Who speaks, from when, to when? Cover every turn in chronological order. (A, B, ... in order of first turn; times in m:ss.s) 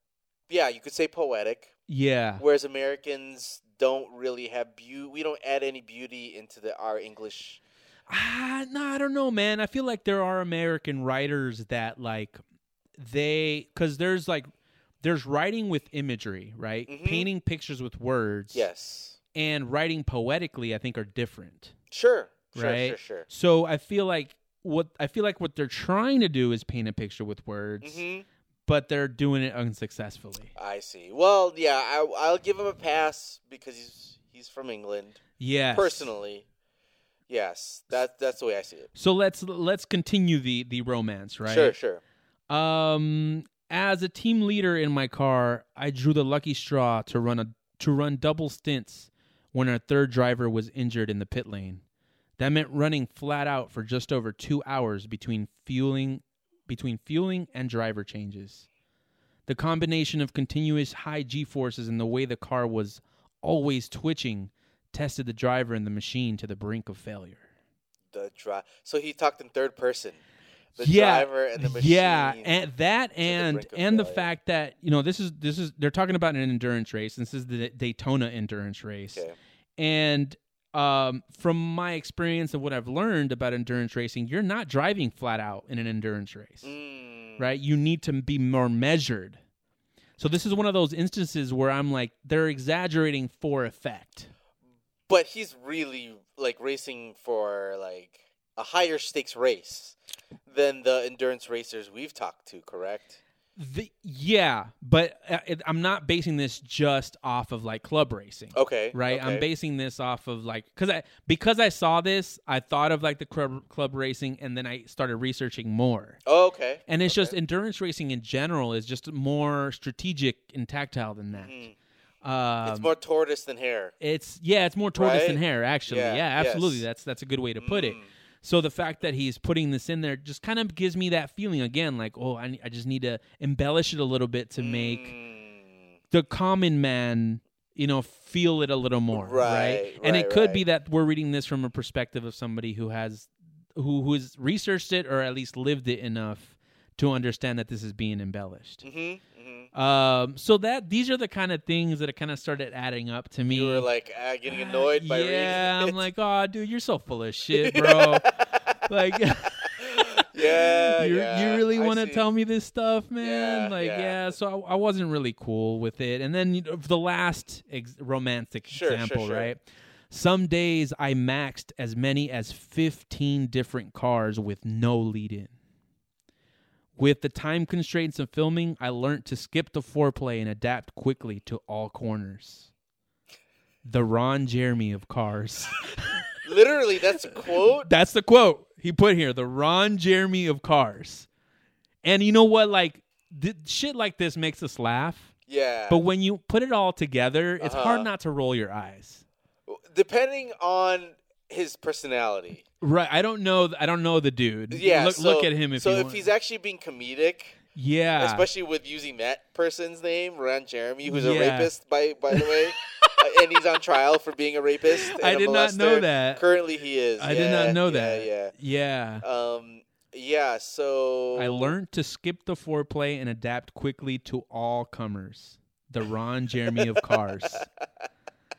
0:00.5-0:01.7 A
0:01.9-0:02.4 B
0:02.4-0:07.6 A
0:08.1-0:12.4 B
0:13.0-0:14.5 B
0:15.0-0:18.7 B
0:16.9-0:17.3 A
0:18.5-0:19.2 A
0:19.3-0:21.7 B
0:21.9-0:23.3 A
0:22.5-0:28.0 B
0:27.8-0:28.3 A
0:28.7-0:30.5 B
0:30.6-0:35.2 A
0:35.4-0:36.1 B
0:35.7-0:36.4 A
0:37.3-0:38.9 A
0:39.0-0:41.8 B
0:41.5-0:42.0 A
0:42.5-0:51.8 B
0:52.4-0:58.7 B
0:59.5-1:07.4 B
1:08.1-1:10.2 A
1:10.8-1:12.6 A
1:10.8-1:19.2 B
1:13.2-1:14.3 A
1:19.8-1:26.7 B
1:26.6-1:27.4 A
1:27.4-1:29.4 B
1:30.2-1:34.3 B
1:35.1-1:40.0 A
1:40.5-1:43.2 A
1:43.6-1:56.2 B
1:48.5-1:49.4 A
1:56.3-1:57.3 A
1:56.9-2:01.6 B
2:01.3-2:01.7 A
2:02.2-2:02.9 B
2:02.6-2:03.9 A
2:04.0-2:15.1 B
2:05.0-2:06.8 A
2:07.6-2:08.1 A
2:14.6-2:15.8 A
2:16.1-2:28.8 B
2:19.1-2:20.6 A
2:28.8-2:29.7 A
2:29.7-2:33.9 B
2:33.5-2:36.0 A
2:34.5-2:55.5 B
2:37.5-2:38.7 A
2:39.6-2:42.2 A
2:43.2-2:44.2 A
2:48.7-2:49.5 A
2:57.0-3:02.7 B
3:03.8-3:06.3 B
3:06.4-3:07.9 A
3:07.4-3:11.3 B
3:12.0-3:15.3 B
3:15.5-3:16.0 A
3:15.9-3:19.2 B
3:17.6-3:18.1 A
3:19.7-3:22.6 A
3:22.8-3:26.3 B
3:24.7-3:27.6 A
3:27.8-3:28.5 B
3:28.2-3:38.6 A
3:31.0-3:31.7 B
3:32.3-3:33.2 B
3:35.0-3:36.4 B
3:37.2-3:39.2 B
3:39.2-3:41.7 A
3:41.4-3:47.7 B
3:46.7-3:47.7 A